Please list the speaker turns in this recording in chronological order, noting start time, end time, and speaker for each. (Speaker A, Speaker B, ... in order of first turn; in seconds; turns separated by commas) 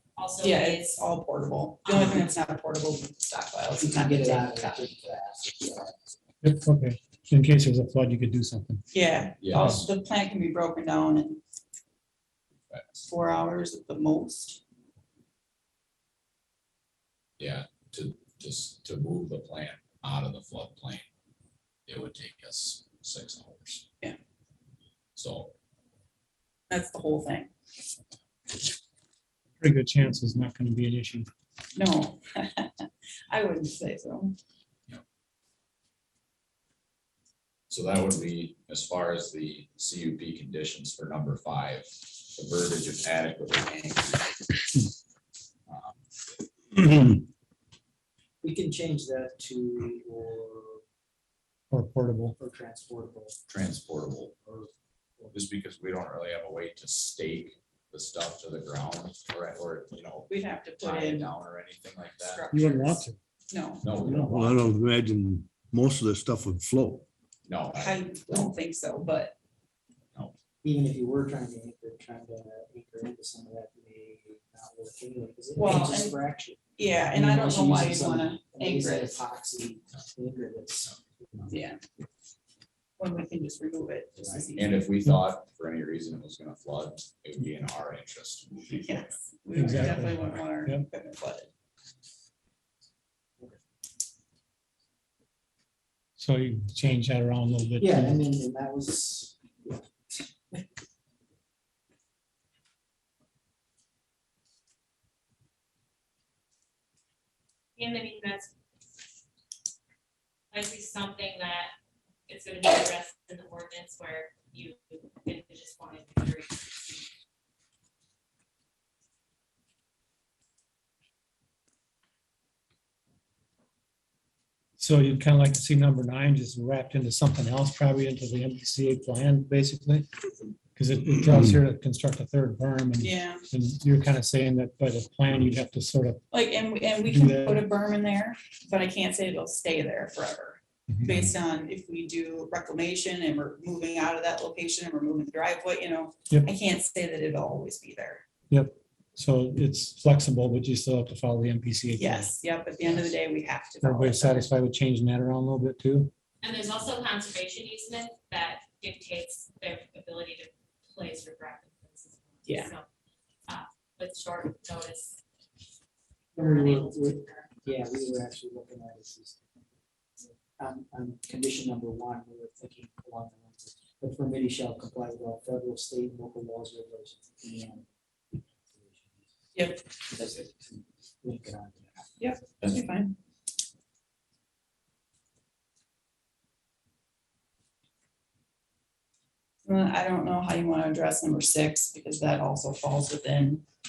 Speaker A: 0.1-1.1, Speaker B: 0.4-4.9, Speaker A: 1.9-2.2, Speaker C: 3.8-5.9, Speaker D: 6.4-8.8, Speaker B: 8.9-11.4, Speaker E: 9.4-9.8, Speaker D: 9.5-9.8, Speaker E: 12.7-13.1, Speaker B: 13.0-14.6, Speaker E: 17.4-21.0, Speaker E: 21.9-23.9, Speaker E: 25.1-25.5, Speaker B: 26.7-27.5, Speaker D: 29.6-31.3, Speaker B: 31.7-34.3, Speaker E: 37.7-44.2, Speaker E: 45.7-46.0, Speaker C: 48.4-50.8, Speaker D: 51.7-52.3, Speaker C: 52.4-53.3, Speaker E: 53.5-54.3, Speaker C: 54.5-55.4, Speaker E: 55.3-62.4, Speaker B: 60.3-61.3, Speaker B: 62.2-64.6, Speaker D: 62.6-63.0, Speaker E: 63.8-64.3, Speaker F: 64.0-67.0, Speaker E: 67.4-68.5, Speaker B: 67.7-69.3, Speaker C: 70.6-81.5, Speaker B: 75.6-76.2, Speaker B: 76.8-79.2, Speaker B: 81.5-81.8, Speaker B: 83.0-84.8, Speaker C: 84.2-84.5, Speaker E: 84.5-89.1, Speaker B: 88.7-91.5, Speaker D: 89.5-90.9, Speaker D: 96.2-98.2, Speaker C: 97.8-99.9, Speaker A: 107.8-108.5, Speaker A: 110.5-111.7, Speaker A: 112.3-117.1, Speaker D: 124.8-130.1, Speaker D: 130.8-136.2, Speaker B: 133.0-133.4, Speaker B: 136.3-148.2, Speaker D: 137.1-137.6, Speaker D: 140.9-141.3, Speaker D: 148.5-152.3, Speaker B: 151.9-154.5, Speaker D: 153.8-156.1, Speaker A: 156.4-162.8, Speaker B: 162.4-162.7, Speaker A: 163.5-165.2, Speaker A: 166.3-167.5, Speaker C: 166.3-169.4, Speaker C: 170.6-177.9, Speaker C: 178.7-179.2, Speaker B: 179.5-179.9, Speaker C: 180.1-182.2, Speaker B: 182.2-183.2, Speaker B: 189.6-193.6